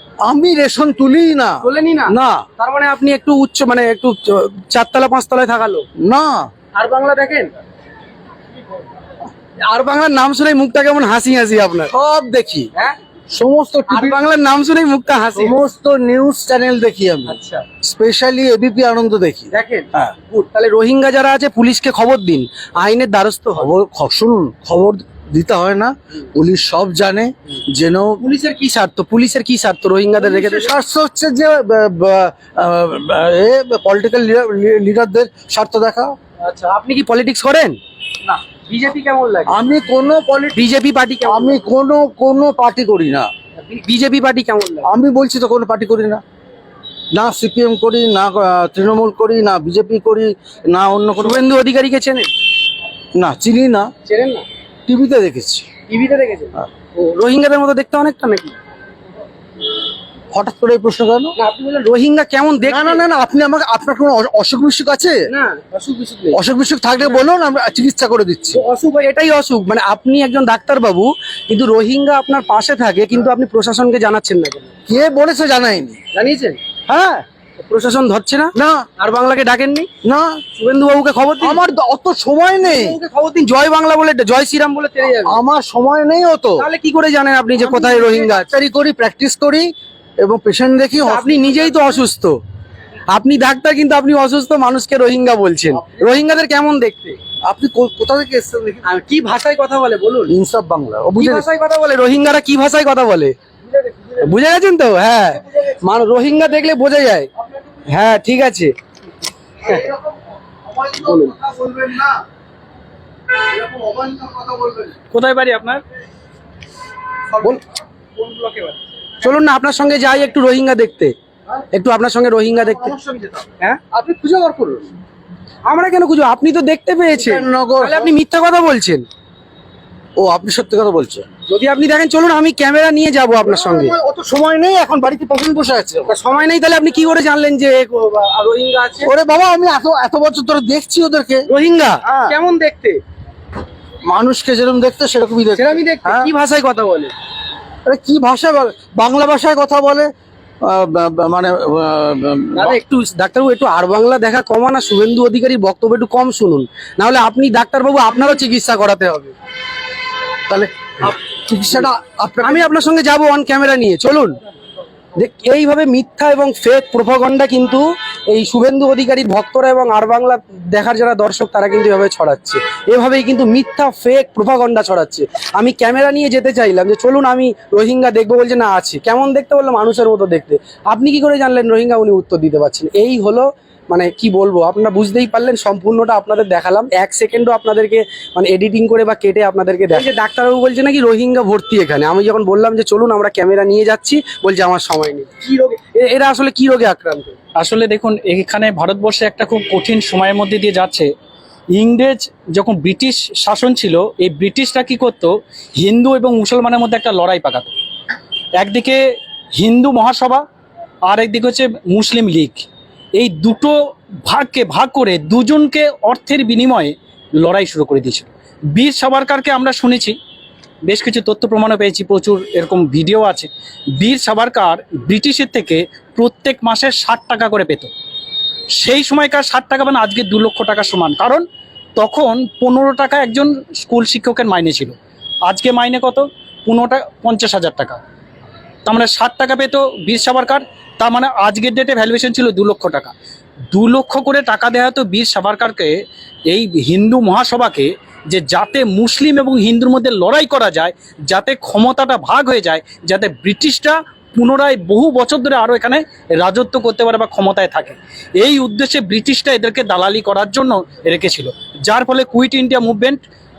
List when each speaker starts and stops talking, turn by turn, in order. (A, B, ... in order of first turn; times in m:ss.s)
0:00.2-0:02.4 A
0:01.6-0:05.9 B
0:06.0-0:06.5 A
0:06.7-0:07.5 B
0:09.6-0:11.9 B
0:11.9-0:12.7 A
0:13.3-0:14.2 A
0:13.9-0:15.6 B
0:15.4-0:20.2 A
0:17.3-0:17.7 B
0:19.5-0:23.7 B
0:23.6-0:28.2 A
0:28.2-0:30.7 B
0:30.2-0:36.1 A
0:36.4-0:39.6 B
0:39.5-0:40.7 A
0:40.6-0:41.6 B
0:41.2-0:43.3 A
0:43.6-0:44.9 B
0:44.8-0:46.2 A
0:47.1-0:51.5 A
0:51.2-0:52.3 B
0:53.2-0:53.9 A
0:54.1-0:54.4 B
0:54.9-0:55.7 A
0:55.9-0:58.6 B
1:00.3-1:01.3 A
1:01.4-1:03.0 B
1:02.7-1:05.2 A
1:05.3-1:06.4 B
1:06.3-1:08.6 A
1:08.5-1:14.8 B
1:14.9-1:16.0 A
1:16.2-1:16.6 B
1:16.9-1:17.2 A
1:17.6-1:19.9 B
1:18.6-1:18.9 A
1:20.0-1:20.4 A
1:20.6-1:21.6 B
1:21.4-1:23.0 A
1:22.6-1:25.4 B
1:25.2-1:26.7 A
1:26.6-1:28.5 B
1:27.6-1:29.7 A
1:30.2-1:31.4 A
1:31.0-1:32.4 B
1:33.1-1:37.2 B
1:37.4-1:38.8 A
1:38.8-1:40.3 B
1:40.3-1:41.5 A
1:41.2-1:43.4 B
1:43.8-1:44.3 A
1:44.2-1:47.3 B
1:47.9-1:48.7 B
1:49.7-1:50.0 A
1:50.7-1:52.2 A
1:51.0-1:51.4 B
1:53.5-1:54.9 A
1:55.1-1:55.8 C
1:57.3-1:57.6 A
1:58.2-1:58.8 C
1:59.2-2:01.1 B
2:01.7-2:03.0 B
2:02.6-2:04.9 A
2:05.6-2:09.1 B
2:07.1-2:08.1 A
2:10.2-2:11.3 A
2:11.5-2:14.0 B
2:13.4-2:16.1 A
2:16.1-2:19.1 B
2:19.0-2:21.5 A
2:21.5-2:23.0 B
2:22.1-2:22.4 A
2:24.0-2:26.3 A
2:25.6-2:27.1 B
2:27.9-2:30.1 A
2:30.6-2:32.8 A
2:32.6-2:39.3 B
2:40.5-2:42.7 A
2:42.4-2:44.4 B
2:45.2-3:17.4 B
3:17.6-3:21.1 C
3:21.8-3:27.7 C
3:28.6-3:29.0 C
3:29.6-3:30.4 C
3:31.1-3:40.2 C
3:40.9-3:47.9 C
3:48.8-3:51.4 C
3:52.0-3:55.0 C
3:55.5-3:58.0 C
3:58.8-4:03.1 C
4:03.7-4:23.2 C